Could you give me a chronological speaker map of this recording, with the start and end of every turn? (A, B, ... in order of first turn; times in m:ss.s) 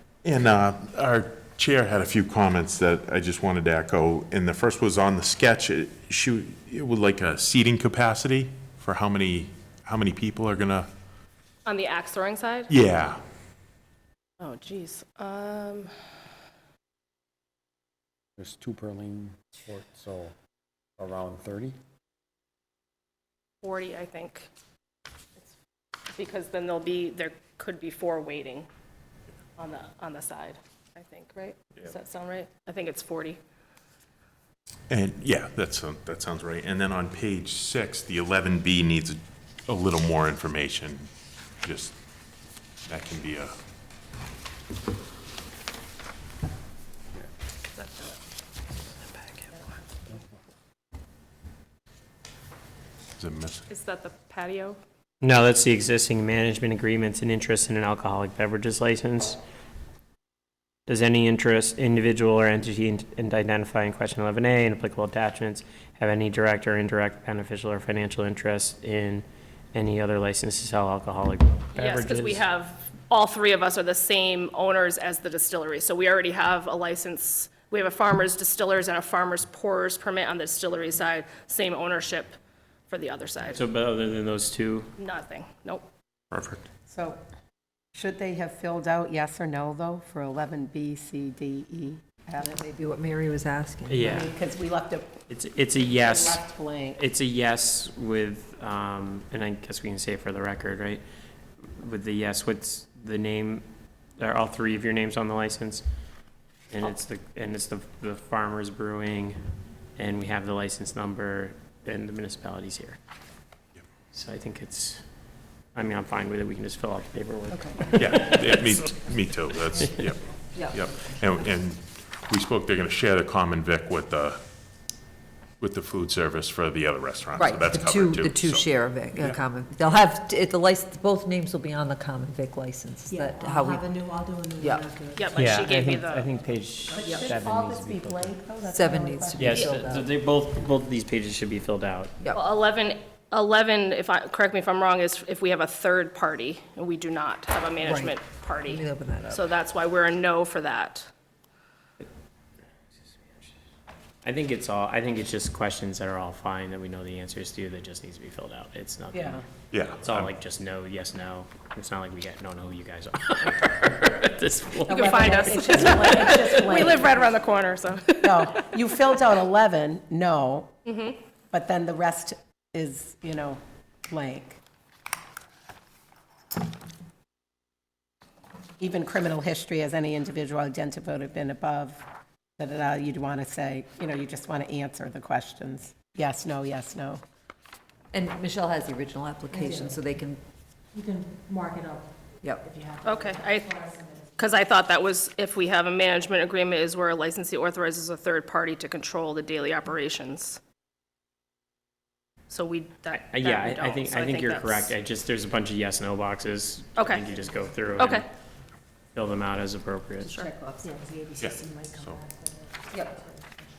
0:00.2-0:10.9 A
0:11.6-0:12.7 B
0:12.7-0:13.2 A
0:14.4-0:15.9 B
0:18.4-0:20.4 C
0:21.0-0:21.8 C
0:23.6-0:24.5 B
0:26.2-0:28.7 B
0:29.6-0:33.4 B
0:34.9-0:41.1 A
0:41.6-0:42.0 A
0:42.9-0:43.6 A
0:47.8-0:48.2 B
0:53.2-0:53.7 A
0:53.7-0:54.8 B
0:55.2-0:59.4 D
1:00.9-1:12.5 D
1:11.8-1:22.4 B
1:22.9-1:23.6 B
1:23.5-1:24.9 D
1:25.0-1:25.8 B
1:26.3-1:26.6 A
1:26.9-1:27.2 E
1:27.9-1:32.6 E
1:32.4-1:34.1 F
1:33.9-1:34.3 D
1:34.0-1:35.1 E
1:35.3-1:36.4 D
1:35.8-1:37.0 E
1:37.0-1:41.0 D
1:41.6-1:43.7 D
1:44.2-1:45.8 D
1:46.7-1:49.4 D
1:50.0-1:53.0 D
1:54.1-1:55.0 D
1:55.8-1:58.8 D
1:58.0-2:00.2 A
2:00.6-2:00.9 F
2:00.7-2:04.4 A
2:05.6-2:09.4 A
2:07.4-2:14.9 F
2:13.1-2:15.5 G
2:15.2-2:16.3 B
2:15.3-2:18.4 D
2:16.9-2:19.7 E
2:17.0-2:17.4 F
2:18.6-2:20.1 F
2:19.4-2:22.3 D
2:22.3-2:31.1 B
2:27.8-2:29.5 F
2:34.2-2:39.4 D
2:39.1-2:39.4 E
2:39.7-2:40.3 A
2:40.0-2:46.6 D
2:44.9-2:47.3 E
2:44.9-2:48.2 B
2:48.2-2:50.7 E
2:50.9-2:51.2 B
2:51.5-2:54.6 E
2:58.8-3:02.0 E
3:02.6-3:07.2 E
3:08.1-3:10.4 F
3:09.6-3:09.9 G
3:11.0-3:12.0 B
3:12.8-3:20.6 B
3:13.1-3:14.0 G
3:22.5-3:24.9 B
3:23.1-3:28.3 D
3:27.0-3:27.3 B
3:28.0-3:28.2 B
3:29.2-3:30.4 D
3:30.2-3:30.5 B
3:30.4-3:32.2 G
3:31.4-3:32.2 A
3:32.9-3:33.2 F